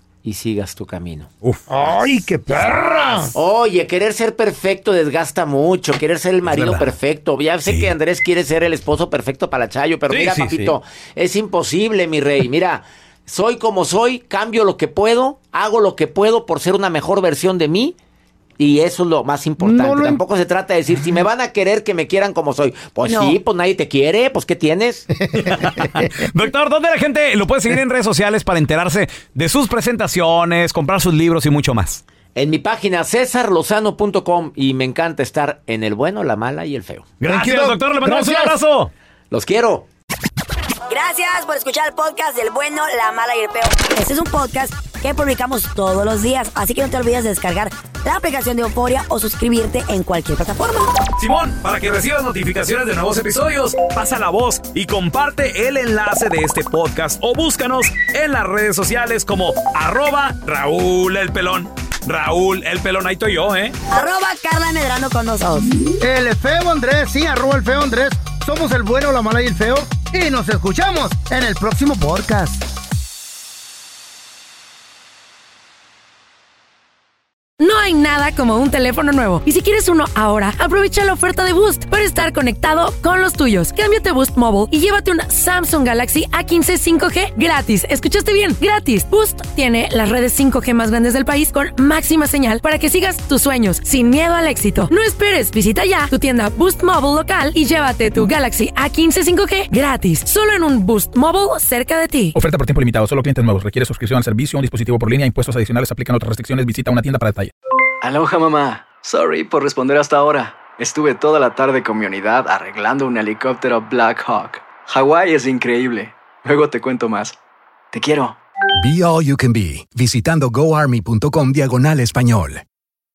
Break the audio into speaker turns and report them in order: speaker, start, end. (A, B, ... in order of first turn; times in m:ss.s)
0:00.2-0:01.3 A
0:01.4-0:01.7 B
0:01.7-0:03.3 C
0:03.3-0:18.0 A
0:06.4-0:06.9 B
0:07.6-0:07.9 B
0:10.1-0:10.7 B
0:18.6-0:25.1 A
0:19.6-0:20.2 C
0:23.0-0:23.4 D
0:25.2-0:26.0 C
0:25.3-0:32.0 B
0:32.4-0:37.1 A
0:37.2-0:38.9 B
0:37.2-0:38.6 C
0:39.3-0:39.9 A
0:40.9-0:51.0 D
0:51.2-1:03.8 B
1:03.9-1:05.8 D
1:06.0-1:12.6 C
1:17.6-1:42.4 E
1:42.3-1:47.5 F
1:48.0-1:57.4 G
1:57.9-1:58.4 G
1:58.8-2:02.6 H